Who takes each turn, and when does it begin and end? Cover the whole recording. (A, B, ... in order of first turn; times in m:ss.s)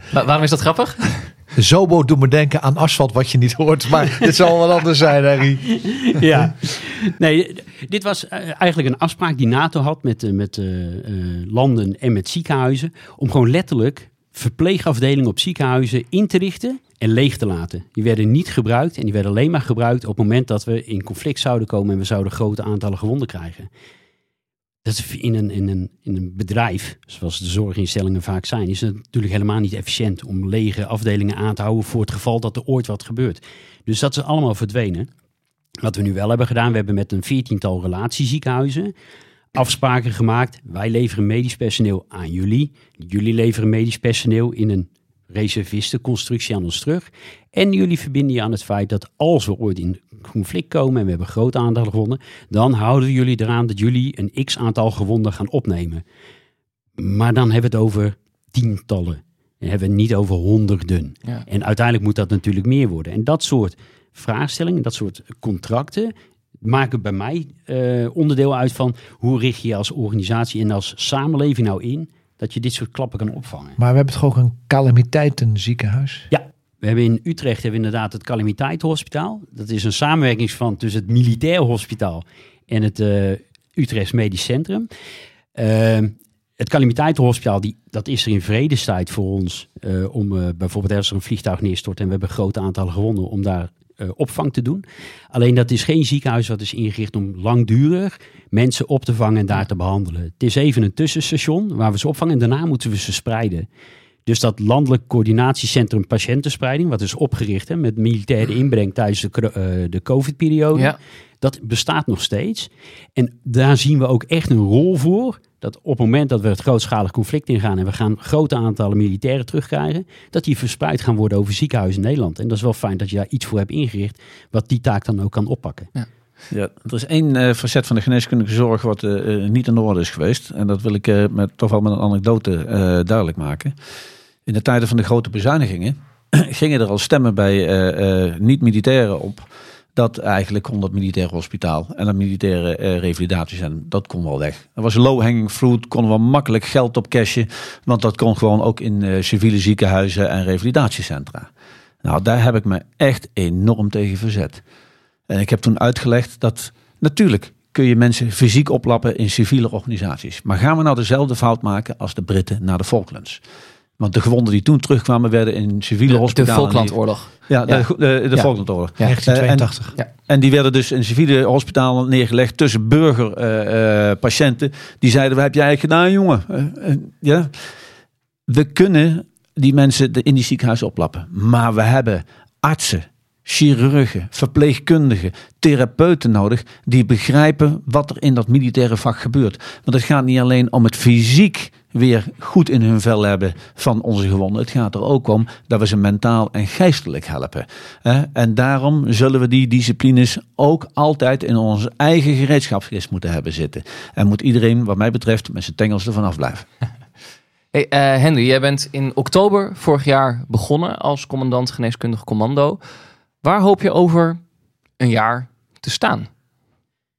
0:00.1-0:01.3 A
0:01.6-0:06.2 B
0:05.8-0:23.7 C
0:24.8-0:35.1 C
0:35.8-0:38.9 C
0:39.6-0:56.0 C
0:57.0-1:13.8 C
1:13.8-1:16.3 B
1:16.3-1:24.9 C
1:25.6-1:43.7 C
1:44.3-2:05.9 C
2:06.5-2:13.8 D
2:14.5-2:31.5 D
2:32.0-2:34.6 D
2:35.3-2:43.4 D
2:44.0-2:49.7 D
2:46.1-2:49.2 A
2:49.0-2:49.9 B
2:50.3-2:57.6 D
2:58.5-3:26.7 D
3:27.7-3:32.8 A
3:33.4-3:34.4 A
3:35.0-3:36.3 A